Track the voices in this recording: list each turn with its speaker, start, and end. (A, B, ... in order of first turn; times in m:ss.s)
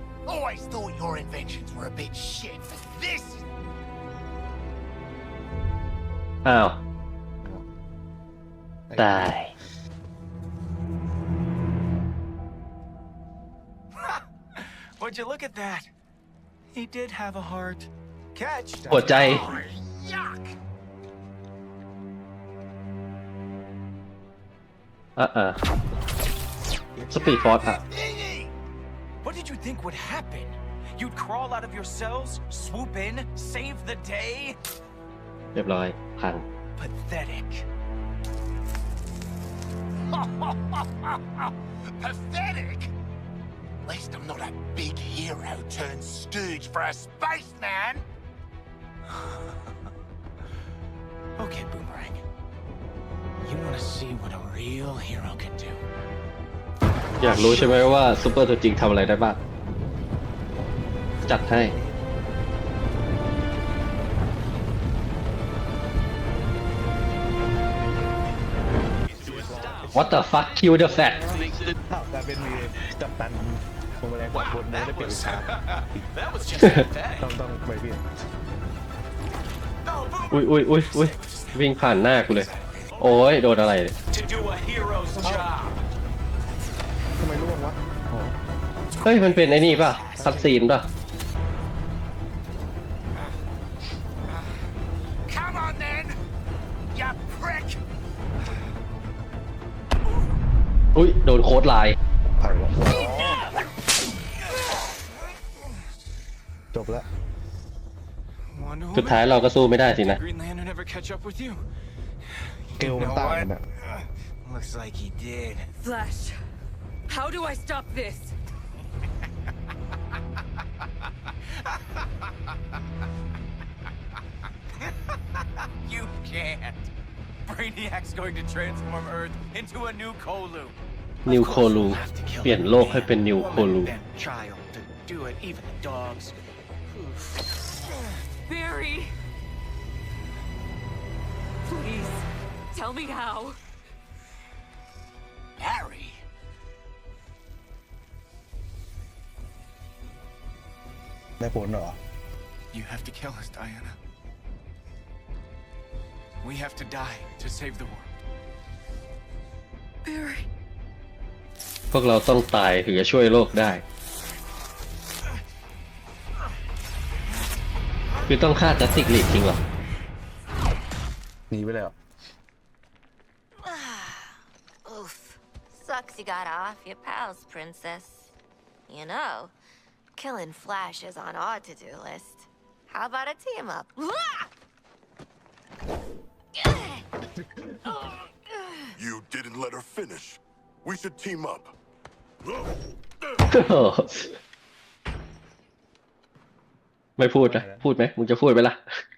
0:00.3-0:03.4 A
0:06.4-0:06.8 B
0:08.9-0:09.4 C
0:09.0-0:09.5 B
0:14.0-0:15.9 D
0:16.7-0:18.8 D
0:18.8-0:19.6 C
0:18.9-0:19.5 B
0:19.1-0:20.6 A
0:25.2-0:25.6 B
0:27.0-0:27.5 C
0:27.1-0:27.8 B
0:27.2-0:28.5 A
0:29.2-0:34.6 D
0:35.6-0:36.5 B
0:36.8-0:37.7 D
0:40.1-0:42.9 A
0:43.8-0:48.0 A
0:51.4-0:52.2 D
0:53.4-0:55.8 D
0:57.2-0:59.4 B
1:01.3-1:01.8 B
1:01.3-1:02.0 C
1:09.1-1:11.8 D
1:09.2-1:10.2 C
1:09.9-1:11.3 B
1:11.9-1:16.0 C
1:14.3-1:17.3 D
1:17.2-1:18.2 C
1:19.8-1:23.5 D
1:20.3-1:23.9 B
1:24.1-1:25.8 D
1:25.2-1:25.5 C
1:27.2-1:28.4 C
1:28.9-1:30.4 D
1:29.0-1:30.8 B
1:30.2-1:30.6 C
1:35.3-1:36.2 A
1:36.9-1:37.8 A
1:41.0-1:42.0 B
1:42.4-1:43.4 C
1:46.7-1:47.1 C
1:48.5-1:51.6 D
1:48.9-1:50.2 B
1:52.4-1:55.7 D
1:52.8-1:53.6 C
1:55.8-1:56.4 E
1:57.1-1:58.3 E
2:04.8-2:05.1 D
2:05.8-2:06.9 D
2:07.5-2:16.4 D
2:11.3-2:13.9 B
2:18.5-2:19.1 E
2:21.7-2:23.6 E
2:25.6-2:26.1 A
2:31.4-2:32.0 C
2:32.7-2:34.0 D
2:36.4-2:38.1 D
2:40.1-2:40.4 E
2:41.9-2:43.8 B
2:48.3-2:49.6 B
2:51.5-2:52.0 C
2:53.6-2:58.4 F
2:58.9-2:59.5 F
3:00.2-3:04.4 F
3:06.6-3:07.0 F
3:07.4-3:07.7 C
3:07.9-3:08.9 F
3:09.0-3:11.8 G
3:12.5-3:12.7 G
3:13.5-3:14.4 B
3:17.2-3:18.8 B
3:17.4-3:17.9 C